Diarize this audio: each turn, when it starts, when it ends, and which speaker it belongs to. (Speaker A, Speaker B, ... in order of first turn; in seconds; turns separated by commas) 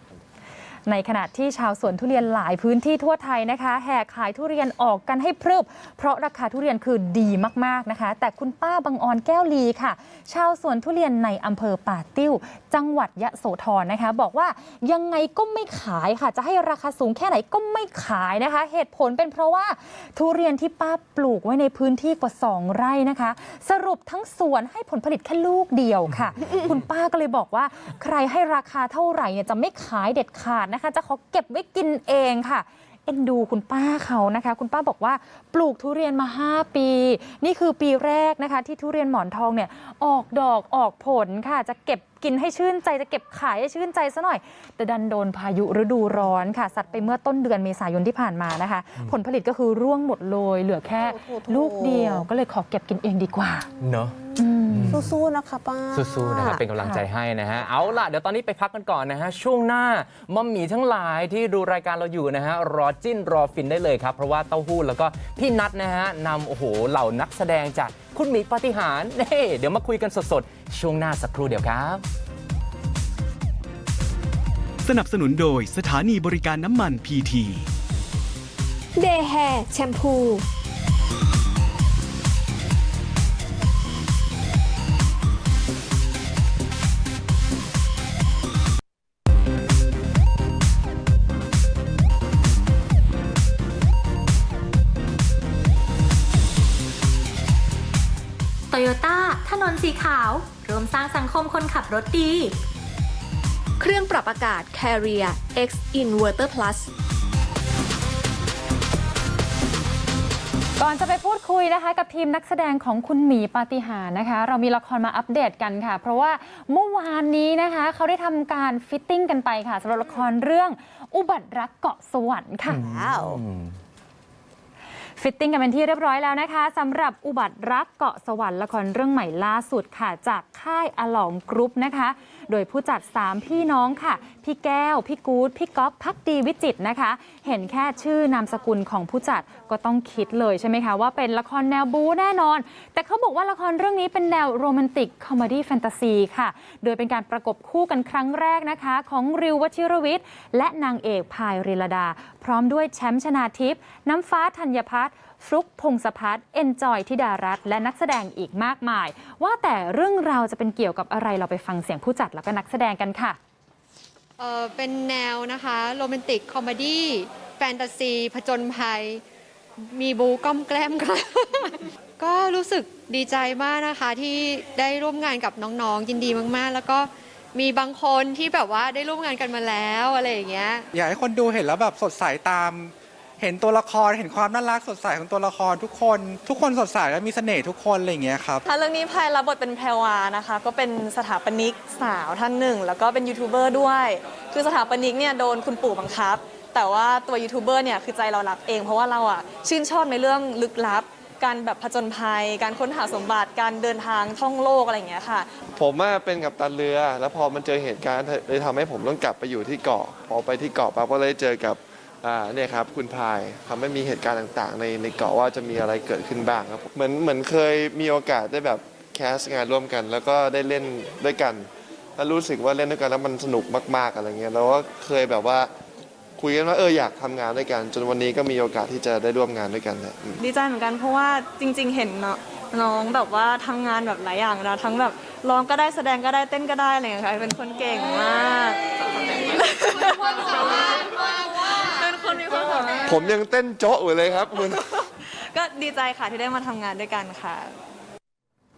Speaker A: 0.9-53.7, Speaker B: 51.0-52.3, Speaker C: 53.8-55.1, Speaker A: 54.4-55.0, Speaker B: 54.9-56.6, Speaker C: 55.9-72.0, Speaker A: 56.7-57.0, Speaker D: 74.8-77.7, Speaker E: 79.0-80.4, Speaker F: 98.7-102.5, Speaker E: 103.8-106.8, Speaker A: 110.8-122.8, Speaker C: 122.7-123.7, Speaker B: 122.8-123.4, Speaker A: 125.2-163.4, Speaker G: 164.4-169.2, Speaker G: 169.8-180.8, Speaker H: 180.9-188.6, Speaker I: 188.6-205.5, Speaker J: 205.7-225.7, Speaker J: 226.4-230.4, Speaker I: 230.4-238.8, Speaker I: 239.3-243.3, Speaker J: 243.0-244.8, Speaker I: 244.7-247.7